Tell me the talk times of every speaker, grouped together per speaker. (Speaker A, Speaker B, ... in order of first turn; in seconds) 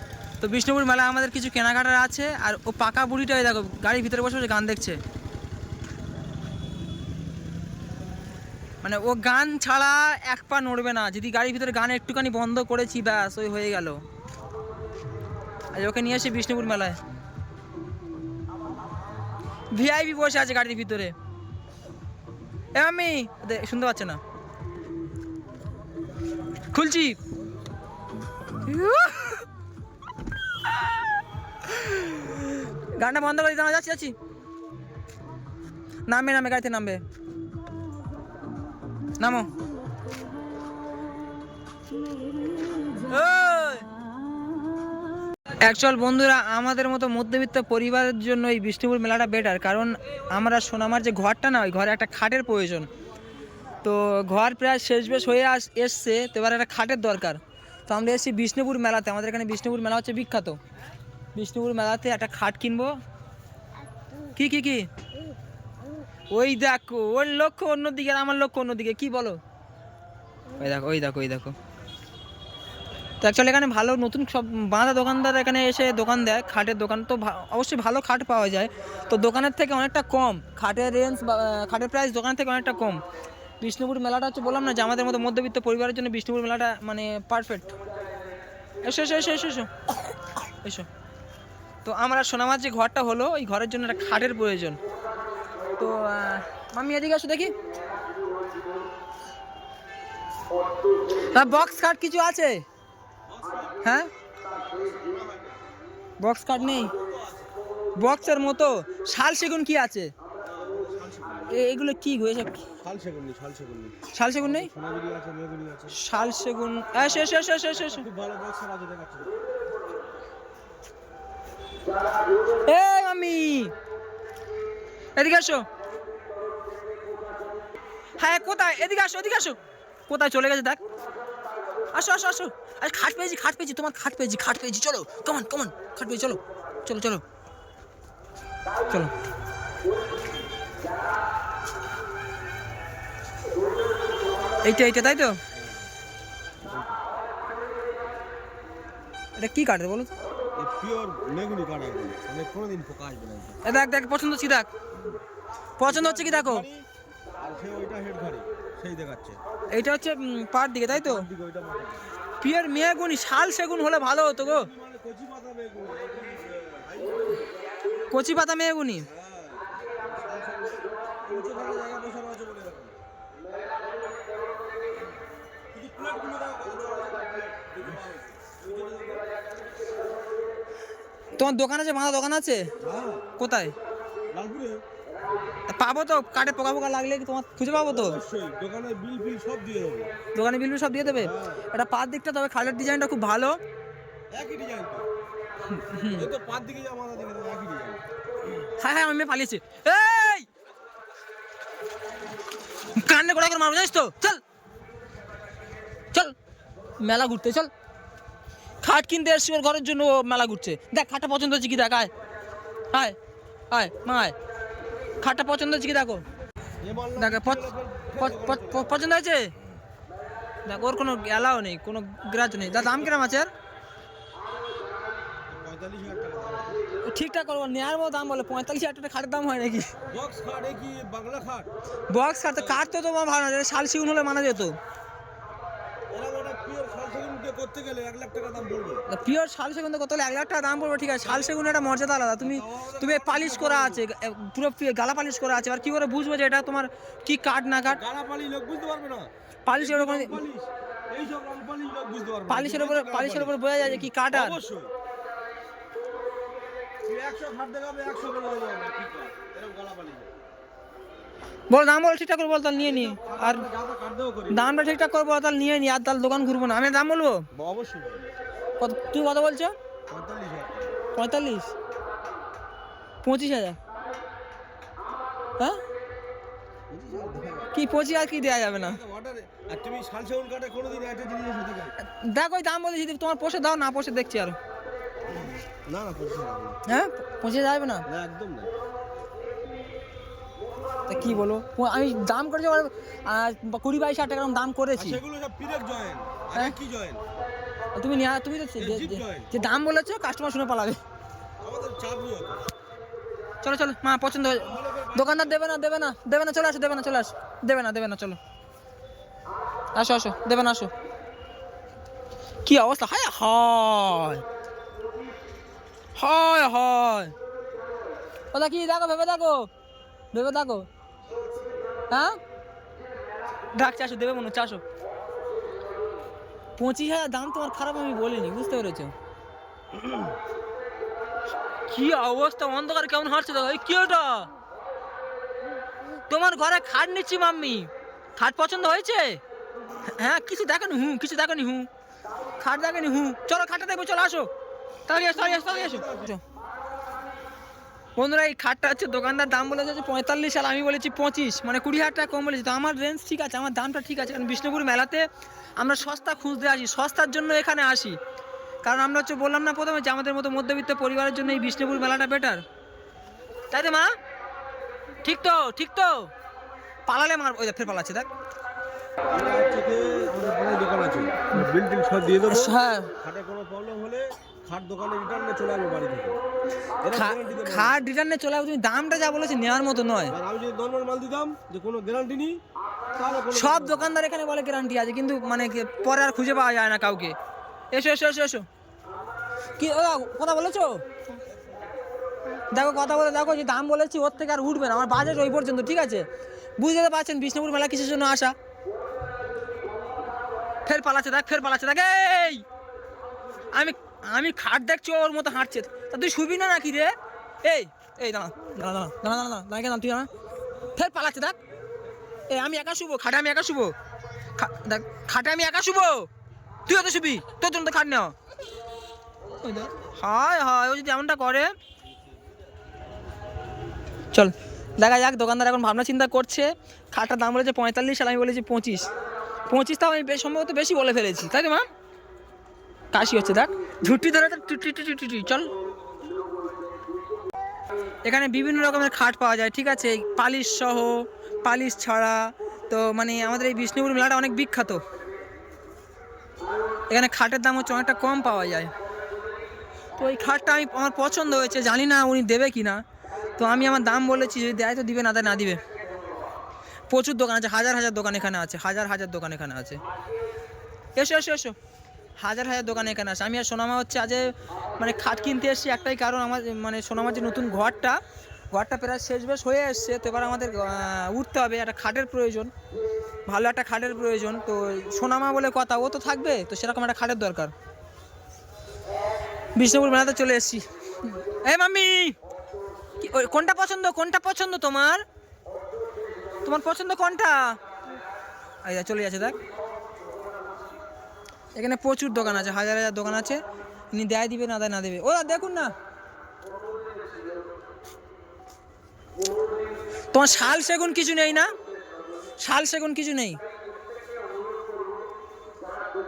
Speaker A: 0.4-5.0, 8.8-14.0, 15.7-17.0, 19.7-21.1, 22.7-24.2, 26.7-27.2, 28.6-29.4, 31.6-34.1, 36.1-37.0, 39.2-39.5, 42.8-43.9, 45.6-52.9, 53.8-60.6, 61.3-62.9, 64.3-64.9, 66.3-69.4, 70.5-71.5, 73.2-83.0, 83.6-87.7, 88.8-89.8, 90.6-90.9, 91.8-94.8, 95.8-97.5, 101.3-102.6, 103.8-104.1, 106.2-106.9, 108.0-110.1, 111.5-112.7, 114.1-114.7, 115.9-118.0, 122.7-123.7, 125.2-125.6, 128.2-129.6, 130.1-130.8, 131.9-137.2, 144.6-145.4, 149.3-150.1, 153.6-154.7, 155.8-156.7, 159.7-161.3, 162.4-164.7, 168.1-169.1, 181.4-182.7, 183.4-183.7, 185.7-188.2, 190.3-193.6, 195.7-196.3, 198.8-200.4, 202.9-204.4, 207.0-207.7, 208.8-212.1, 213.7-214.3, 215.2-216.2, 217.2-217.7, 218.2-219.5, 220.7-223.5, 227.1-229.9, 232.1-234.8, 239.1-248.0, 249.7-250.4, 252.5-254.6, 261.7-263.6, 264.5-267.5, 268.8-269.7, 271.1-271.7, 273.2-273.8, 277.7-279.0, 282.0-284.6, 286.9-288.1, 291.1-295.2, 298.0-301.0, 303.6-308.4, 309.9-310.9, 312.6-314.4, 316.1-317.3, 318.5-319.7, 320.3-320.9, 322.1-322.4, 323.7-324.8, 326.8-329.1, 331.9-334.5, 336.3-339.4, 340.1-341.9, 342.6-344.5, 345.1-346.4, 348.2-358.2, 358.8-362.6, 363.7-364.1, 365.2-366.3, 367.1-368.3, 372.5-373.1, 377.1-380.3, 383.5-387.4, 387.9-388.6, 389.8-391.0, 392.7-396.2, 396.8-398.5, 400.8-402.6, 403.7-410.3, 410.9-411.6, 412.5-413.9, 414.6-416.3, 416.9-418.3, 419.6-421.7, 424.3-429.1, 429.7-431.9, 433.1-435.7, 438.2-445.0, 447.1-448.9, 450.2-453.0, 453.6-455.8, 457.1-460.0, 461.1-461.7, 462.4-468.2, 468.7-472.7, 473.5-477.7, 479.8-482.4, 483.2-485.2, 486.6-487.8, 488.8-489.6, 491.7-493.6, 494.1-495.9, 500.3-501.7, 502.6-503.6
Speaker B: 103.3-103.8, 104.9-105.5, 106.8-107.5, 110.4-111.6, 112.8-116.0, 117.8-119.4, 146.6-147.0, 150.6-153.6, 155.8-156.8, 157.4-159.4, 160.9-162.2, 164.5-167.5, 169.0-172.9, 175.7-179.2, 182.8-183.3, 184.3-184.8, 187.8-190.1, 191.2-191.6, 194.3-195.1, 196.1-198.0, 216.8-218.9, 225.5-226.8, 230.1-231.7, 236.1-239.0, 241.2-241.6, 242.4-244.0, 247.9-254.9, 257.0-260.3, 262.8-264.6, 267.5-268.2, 270.1-271.0, 276.9-277.7, 278.8-281.9, 285.8-286.8, 288.1-288.7, 294.9-297.2, 298.8-299.5, 301.6-302.6, 304.6-305.4, 345.2-346.3, 369.3-376.4, 377.0-378.0, 380.3-382.6, 383.1-384.1